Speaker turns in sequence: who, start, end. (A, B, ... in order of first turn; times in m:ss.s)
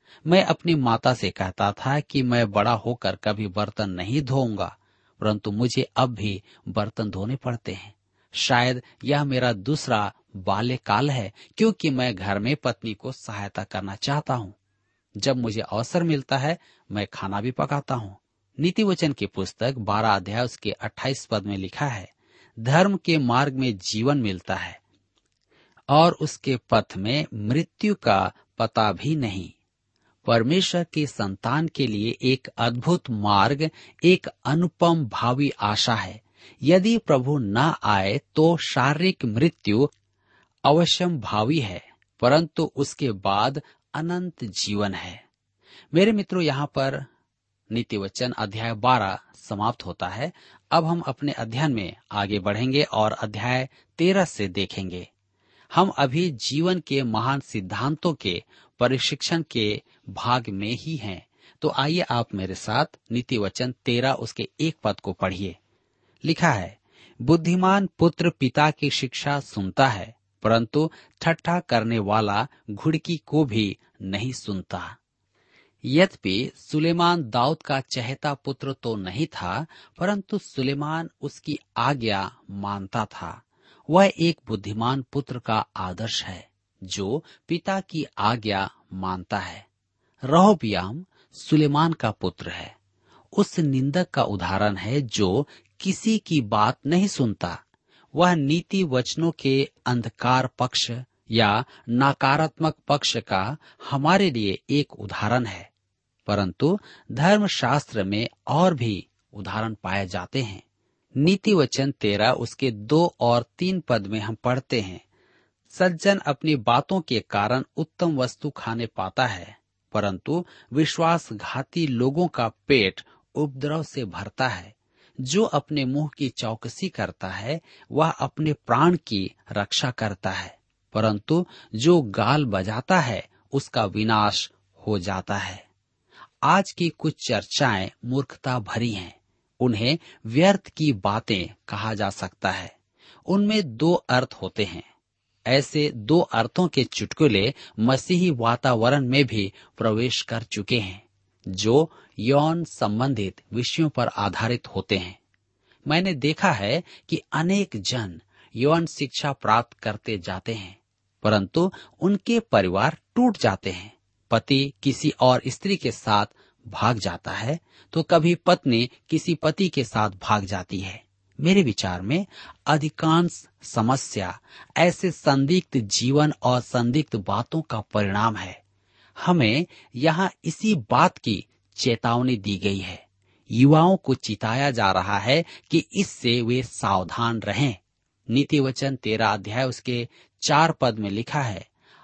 0:00.3-0:14.6 A
0:15.2-0:24.8 A
0:25.9-0:29.5 A
0:30.3-0:39.9 A
0:40.7-0:45.2 A
0:45.9-0:47.1 A
0:47.7-0:55.1 A
0:55.7-1:05.6 A
1:06.2-1:15.0 A
1:15.9-1:29.6 A
1:30.3-1:32.7 A
1:33.4-1:37.6 A
1:38.2-1:45.7 A
1:46.3-1:50.6 A
1:51.2-1:55.0 A
1:55.7-2:15.6 A
2:16.4-2:22.7 A
2:23.3-2:24.8 A
2:25.5-2:35.2 A
2:35.9-2:58.6 A
2:59.2-3:11.7 A